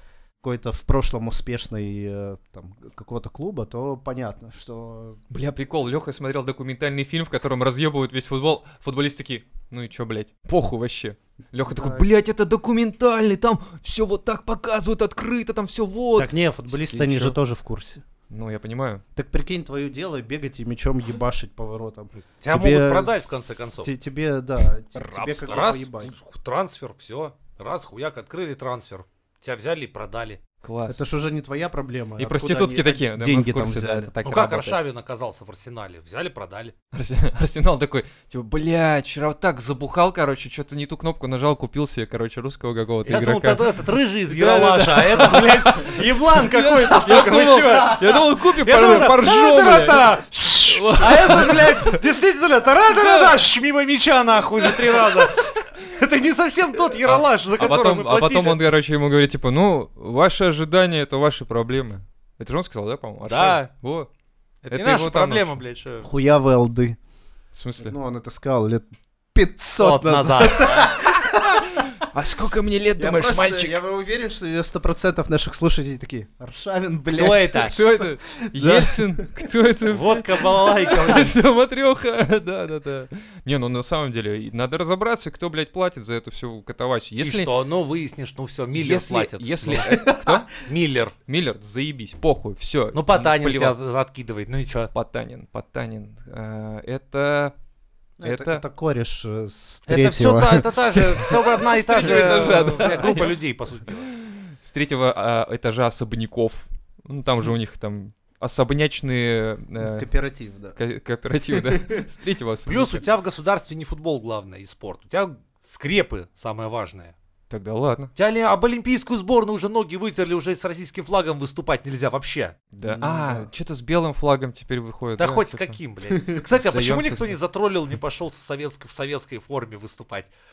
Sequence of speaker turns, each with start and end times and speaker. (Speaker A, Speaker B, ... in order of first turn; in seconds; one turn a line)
Speaker A: 0.4-5.2
Speaker B: 5.3-17.4
Speaker A: 11.7-12.1
Speaker A: 16.2-18.0
Speaker B: 18.3-19.0
Speaker A: 19.2-26.1
Speaker C: 22.4-23.9
Speaker C: 25.0-30.4
Speaker B: 30.6-31.0
Speaker A: 30.9-34.1
Speaker B: 32.2-34.8
Speaker C: 34.2-36.7
Speaker B: 36.9-52.0
Speaker C: 43.0-58.6
Speaker A: 47.1-48.2
Speaker B: 52.9-53.4
Speaker B: 54.6-55.7
Speaker B: 57.0-64.1
Speaker C: 63.2-63.7
Speaker C: 64.7-66.1
Speaker B: 64.7-65.6
Speaker A: 66.0-67.0
Speaker B: 67.5-68.0
Speaker A: 67.8-71.8
Speaker C: 69.8-71.0
Speaker B: 71.2-73.8
Speaker A: 73.0-79.3
Speaker C: 77.1-77.8
Speaker B: 77.6-87.5
Speaker C: 79.9-81.3
Speaker C: 87.2-89.9
Speaker B: 88.7-90.5
Speaker A: 89.8-90.5
Speaker C: 90.6-91.1
Speaker B: 91.3-93.8
Speaker C: 92.9-94.9
Speaker B: 94.9-97.5
Speaker A: 98.2-101.0
Speaker B: 98.2-98.6
Speaker C: 99.9-104.1
Speaker B: 101.2-103.4
Speaker A: 102.1-102.9
Speaker B: 104.2-110.1
Speaker A: 109.8-110.8
Speaker B: 110.8-113.0
Speaker A: 111.5-112.0
Speaker C: 112.7-117.2
Speaker B: 117.5-118.1
Speaker C: 118.2-122.6
Speaker B: 122.7-125.8
Speaker A: 122.8-123.5
Speaker C: 125.2-130.3
Speaker B: 126.6-127.4